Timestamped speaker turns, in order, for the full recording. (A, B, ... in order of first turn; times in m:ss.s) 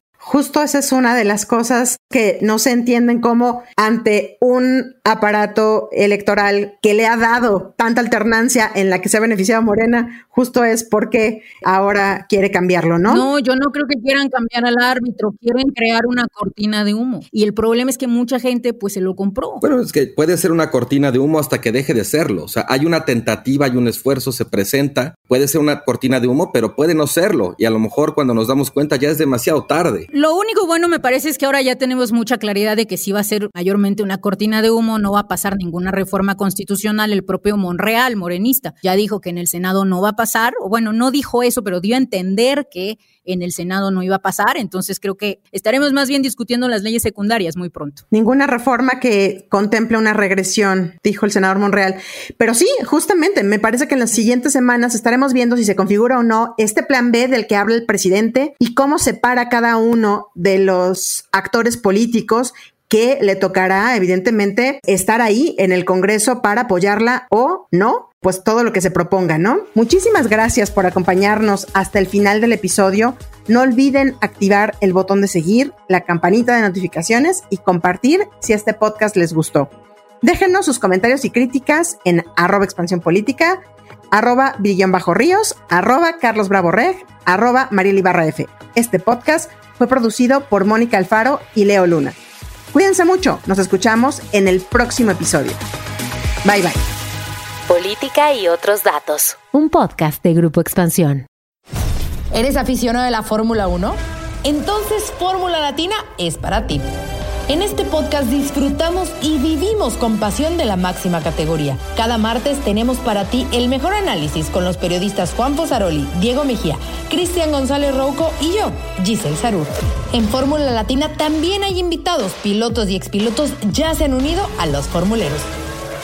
0:00.2-0:13.3 A
0:13.1-0:19.6 B
0:19.6-0:30.1 C
0:30.1-0:48.0 B
0:48.1-1:19.7 A
1:20.2-1:32.2 A
1:32.7-1:35.6 A
1:36.4-1:36.8 A
1:37.7-1:41.3 D
1:42.3-1:46.8 E
1:47.5-2:05.5 E